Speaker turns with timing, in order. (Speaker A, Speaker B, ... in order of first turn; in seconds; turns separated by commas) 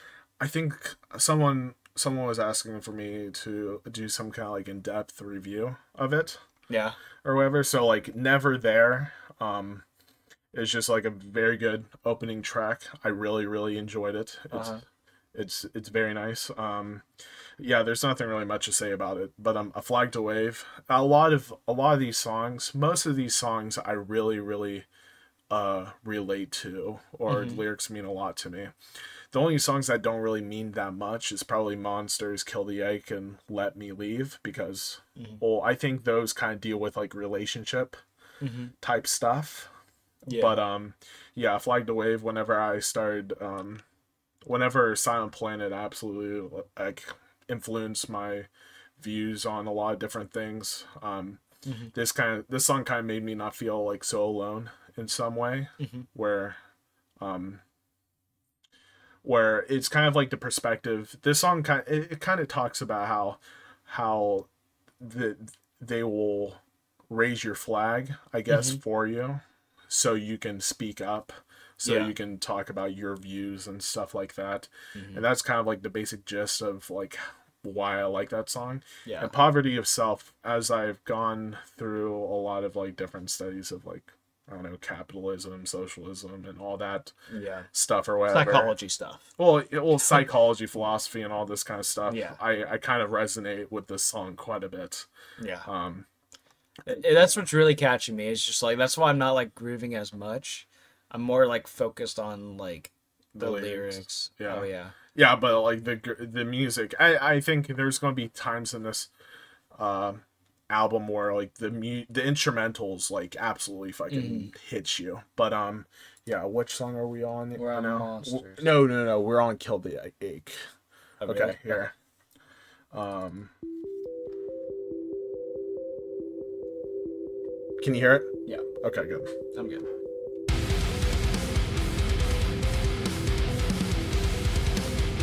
Speaker A: 0.4-6.4, Speaker B: 6.7-7.0, Speaker A: 7.2-9.8, Speaker A: 10.5-14.8, Speaker B: 14.5-14.8, Speaker A: 15.3-17.1, Speaker A: 17.6-24.9, Speaker A: 25.5-28.7, Speaker B: 27.3-27.6, Speaker A: 29.3-38.0, Speaker B: 38.4-38.7, Speaker A: 38.8-39.7, Speaker B: 40.3-40.6, Speaker A: 40.3-43.8, Speaker A: 44.5-51.4, Speaker B: 51.6-51.9, Speaker A: 51.9-56.6, Speaker B: 55.8-56.1, Speaker A: 57.2-57.6, Speaker A: 59.2-64.5, Speaker A: 65.0-87.1, Speaker B: 68.5-68.8, Speaker B: 71.8-72.2, Speaker B: 74.9-75.2, Speaker B: 79.0-79.3, Speaker B: 87.3-87.7, Speaker A: 87.7-88.7, Speaker B: 88.3-89.3, Speaker A: 89.4-95.1, Speaker B: 92.1-92.4, Speaker B: 95.4-95.7, Speaker A: 95.7-96.1, Speaker A: 96.9-97.4, Speaker B: 96.9-105.0, Speaker A: 103.3-109.1, Speaker A: 109.8-120.6, Speaker B: 114.1-114.5, Speaker B: 117.5-118.8, Speaker B: 121.2-121.9, Speaker A: 121.2-121.9, Speaker A: 122.9-123.5, Speaker A: 127.8-129.3, Speaker B: 129.5-129.9